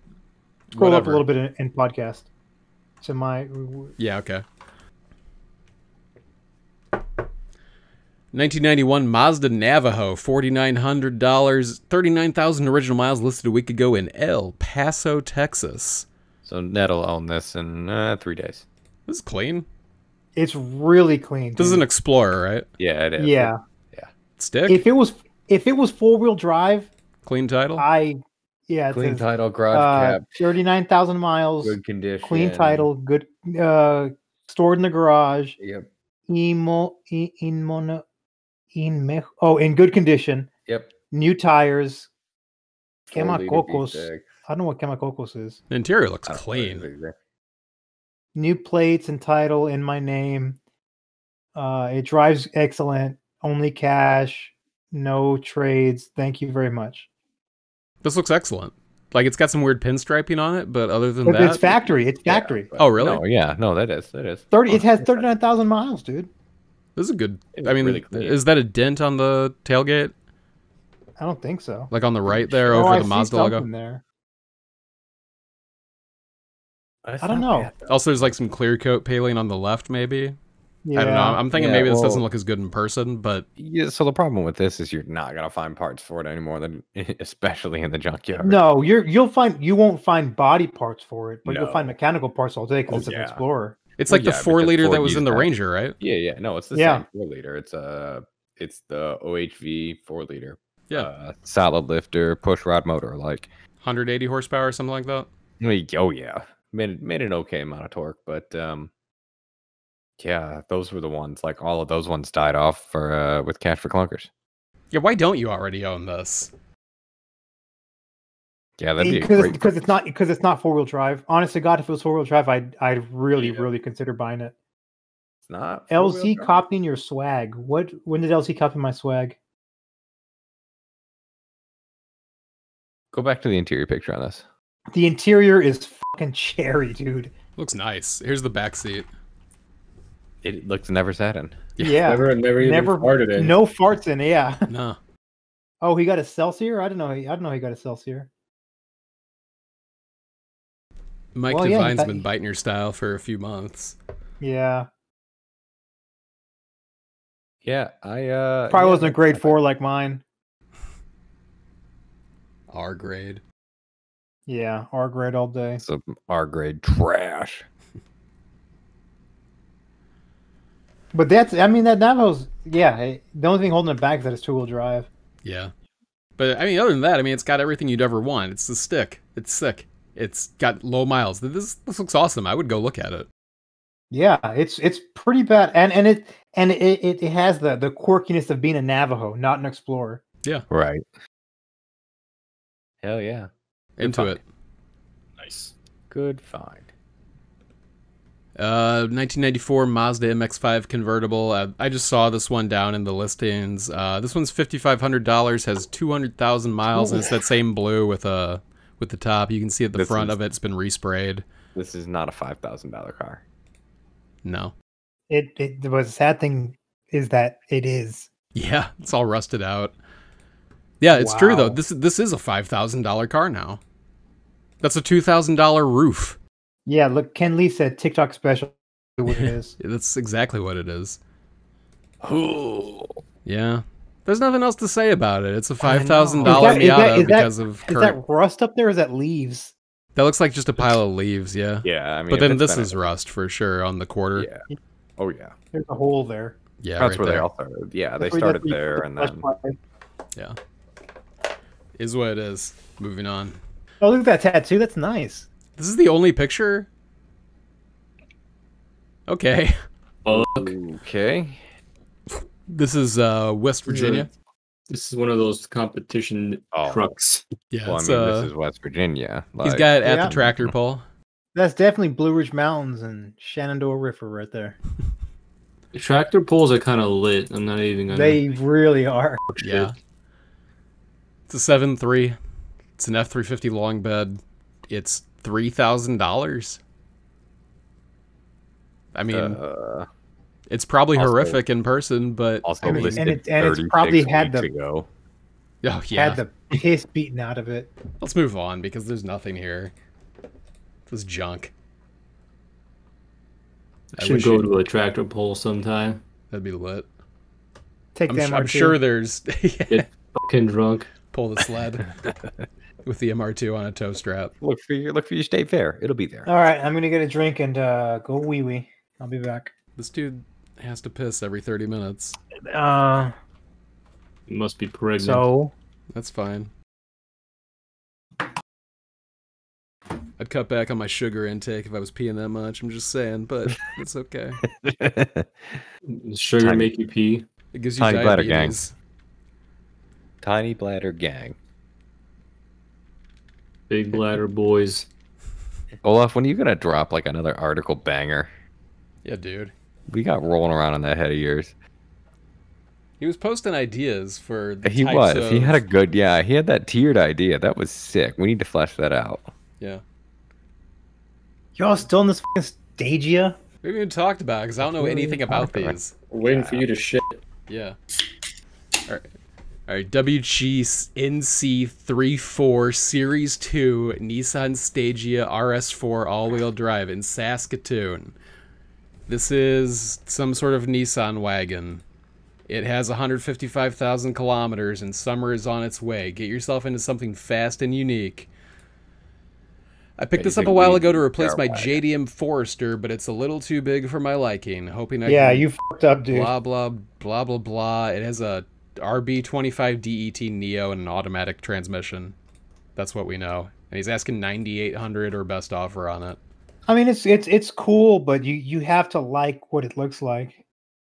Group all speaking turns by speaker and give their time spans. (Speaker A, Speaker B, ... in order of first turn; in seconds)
Speaker A: 0.7-1.3, 4.0-4.4, 8.3-16.1, 19.1-19.7, 21.6-22.7, 24.4-24.8, 27.2-27.9, 45.7-46.9, 58.0-61.6, 62.8-63.2, 67.0-70.1, 71.9-73.7, 77.9-80.4, 80.9-83.5, 94.0-96.0, 103.8-105.3, 114.9-116.5, 137.6-139.1, 144.7-145.0, 151.3-154.0, 162.7-163.4, 175.4-175.7, 176.4-183.3, 194.0-194.4, 198.6-211.4, 214.4-214.7, 218.5-219.9, 221.0-223.8, 224.8-226.4, 229.3-231.2, 233.4-238.2, 240.2-244.5, 246.8-247.5, 252.0-253.6, 255.8-256.9, 259.3-259.8, 262.3-264.3, 267.7-268.5, 269.6-271.1, 279.6-279.9, 281.5-282.4, 283.0-286.8, 289.1-289.6, 290.7-293.4, 295.8-296.4, 298.2-299.9, 301.1-301.7, 304.2-304.7, 306.5-307.1, 308.3-310.1, 311.3-312.1, 313.1-314.5, 320.0-322.4, 326.1-326.7, 330.4-334.6, 337.7-338.9, 349.2-349.7, 353.2-355.8, 363.8-366.9, 367.7-368.0, 369.9-378.3, 379.3-382.0, 382.7-388.5, 390.2-395.7, 396.3-402.4, 403.0-406.4
Speaker B: 0.8-2.3, 3.0-3.9, 20.4-21.8, 23.2-23.6, 24.7-26.9, 27.8-35.6, 36.3-38.0, 38.7-40.5, 41.1-42.1, 43.1-45.6, 48.4-50.6, 51.5-57.1, 61.2-62.7, 64.5-66.3, 71.2-71.9, 72.7-74.0, 77.2-77.7, 80.8-81.4, 88.4-93.8, 96.7-97.0, 119.0-124.5, 125.9-129.4, 134.9-137.3, 141.8-144.7, 145.8-148.3, 151.5-152.3, 154.4-154.9, 158.7-160.2, 164.5-165.8, 171.1-175.1, 184.1-190.2, 215.3-218.3, 221.1-221.8, 226.9-229.8, 235.8-239.8, 245.7-246.6, 248.2-249.8, 254.0-255.5, 270.0-270.3, 271.6-274.8, 278.1-279.4, 292.8-294.7, 296.1-297.9, 308.1-309.0, 316.5-319.7, 322.7-323.3, 325.2-325.7, 361.8-363.6, 364.9-365.9, 395.3-396.5, 406.9-410.6
Speaker C: 16.4-18.6, 22.8-24.1, 28.9-30.3, 31.6-32.9, 35.6-35.9, 40.7-40.9, 43.1-44.3, 46.3-47.2, 61.6-65.3, 67.5-68.4, 72.3-73.0, 77.0-78.0, 81.5-82.3, 83.6-88.7, 91.5-92.0, 92.9-93.4, 94.1-95.5, 96.0-103.5, 105.6-108.9, 110.2-114.3, 118.8-119.7, 125.5-126.6, 133.1-134.4, 140.4-141.6, 157.6-159.6, 165.8-167.7, 190.7-191.1, 193.0-194.4, 196.1-196.9, 209.9-210.4, 211.8-213.4, 232.2-233.2, 236.4-236.8, 241.8-243.0, 244.4-244.6, 245.2-245.5, 247.0-249.5, 260.3-261.6, 266.7-267.1, 267.8-270.7, 289.3-290.1, 291.2-291.6, 292.6-295.1, 314.6-316.5, 334.7-335.9, 336.6-336.9, 338.0-338.8, 340.4-341.6, 346.0-348.5, 350.1-351.7, 354.8-359.5, 365.7-365.9, 390.4-392.0
Speaker D: 142.0-143.6, 195.4-195.7, 260.2-260.8, 263.9-264.3, 264.9-267.4, 275.9-278.4, 304.2-306.2, 309.9-311.1, 324.5-325.5, 336.1-337.4, 343.9-345.1, 366.3-367.4